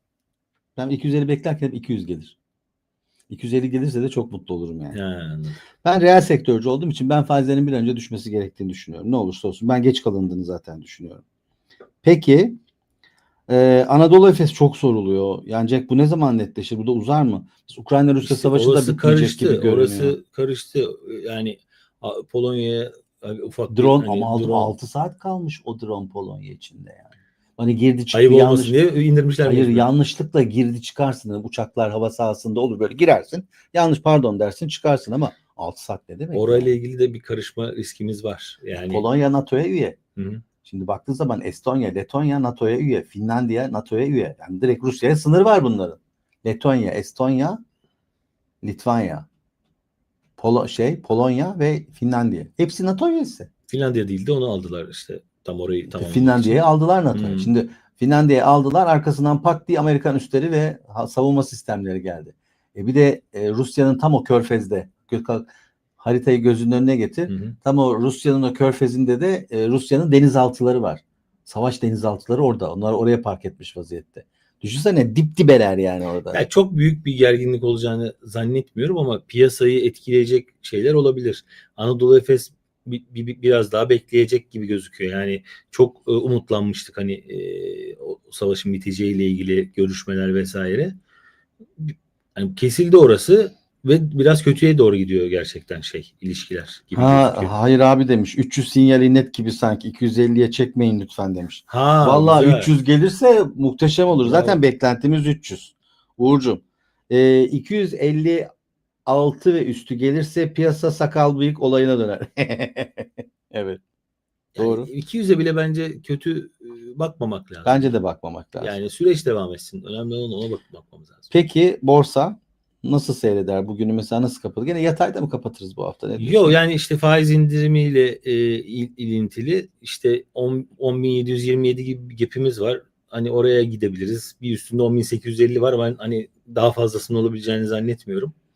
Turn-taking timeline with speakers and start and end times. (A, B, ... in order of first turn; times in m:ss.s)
0:00.8-0:02.4 A
0:03.3-0:05.0 A
0:04.9-0:05.6 B
0:05.8-0:11.2 A
0:12.0-0:12.6 A
0:13.5-0:20.2 A
0:18.2-0:24.7 B
0:23.7-0:27.1 A
0:27.6-0:28.8 A
0:28.1-0:29.9 B
0:29.4-0:36.7 A
0:36.3-0:39.0 B
0:38.9-0:40.0 A
0:40.2-0:40.4 B
0:40.6-0:47.6 A
0:48.6-0:49.3 A
0:50.4-0:53.5 A
0:53.7-0:57.5 B
0:55.9-1:05.5 A
1:06.0-1:16.4 A
1:07.3-1:07.6 B
1:16.3-1:30.9 B
1:31.8-1:37.5 B
1:36.9-1:48.5 A
1:41.7-1:42.7 B
1:44.1-1:44.6 B
1:49.1-1:53.8 A
1:54.6-1:58.0 B
1:54.6-1:54.9 A
1:57.6-1:58.7 A
1:58.6-2:01.3 B
2:01.3-2:06.6 A
2:06.2-2:18.3 B